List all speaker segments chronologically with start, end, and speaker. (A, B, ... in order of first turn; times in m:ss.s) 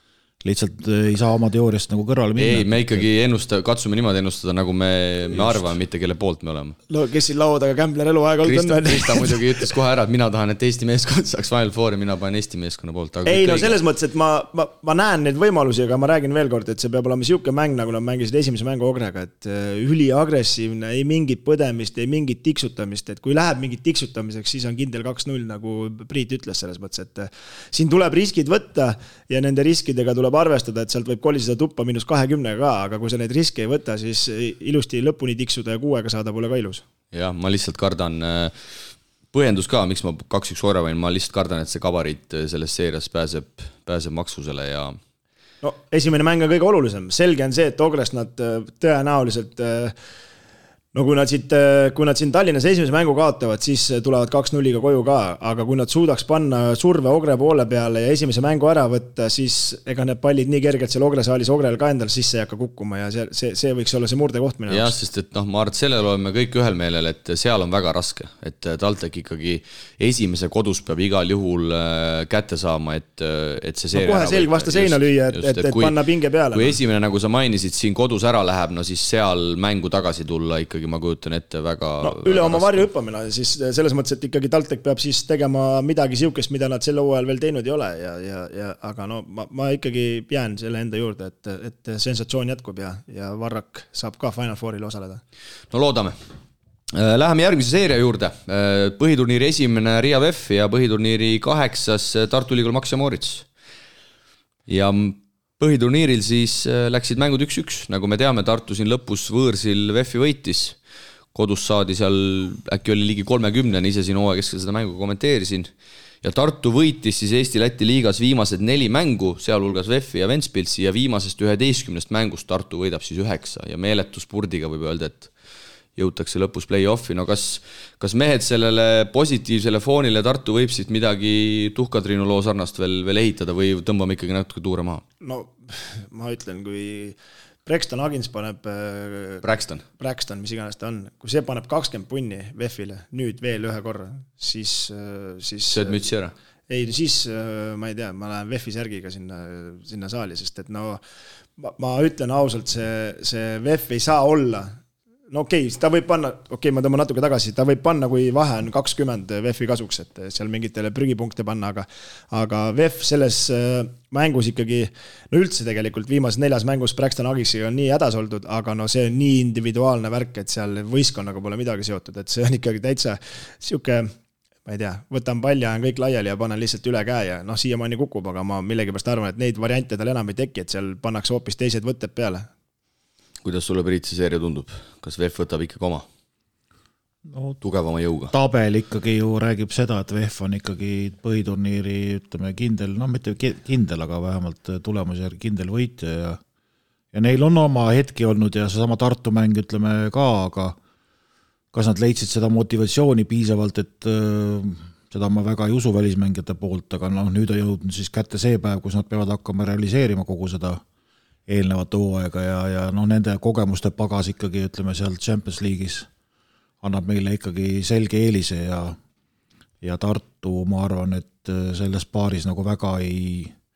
0:00.4-0:03.1 A
0:02.4-0:06.8 B
0:05.3-0:05.7 A
0:06.9-0:09.7 C
0:08.4-0:13.8 B
0:13.3-0:36.8 C
0:37.1-0:38.7 B
0:39.3-0:45.0 B
0:45.6-0:49.9 C
0:50.9-1:04.9 C
1:04.7-1:16.0 B
1:13.9-1:16.8 C
1:16.5-1:22.9 B
1:22.0-1:35.2 C
1:35.7-1:36.2 B
1:36.9-1:43.5 B
1:44.7-1:50.8 B
1:51.3-1:55.7 B
1:56.2-2:05.3 B
2:06.0-2:15.0 B
2:15.2-2:19.4 C
2:19.4-2:19.8 B
2:20.0-2:26.0 C
2:25.7-2:26.3 B
2:26.7-2:31.0 C
2:31.6-2:34.8 C
2:35.3-2:54.1 C
2:54.7-3:02.5 C
3:03.4-3:06.1 B
3:07.3-3:07.6 A
3:07.6-3:08.3 B
3:08.3-3:16.4 A
3:17.1-3:20.8 A
3:21.7-3:30.8 A
3:31.5-3:36.1 A
3:36.8-3:39.0 A
3:39.8-3:43.5 A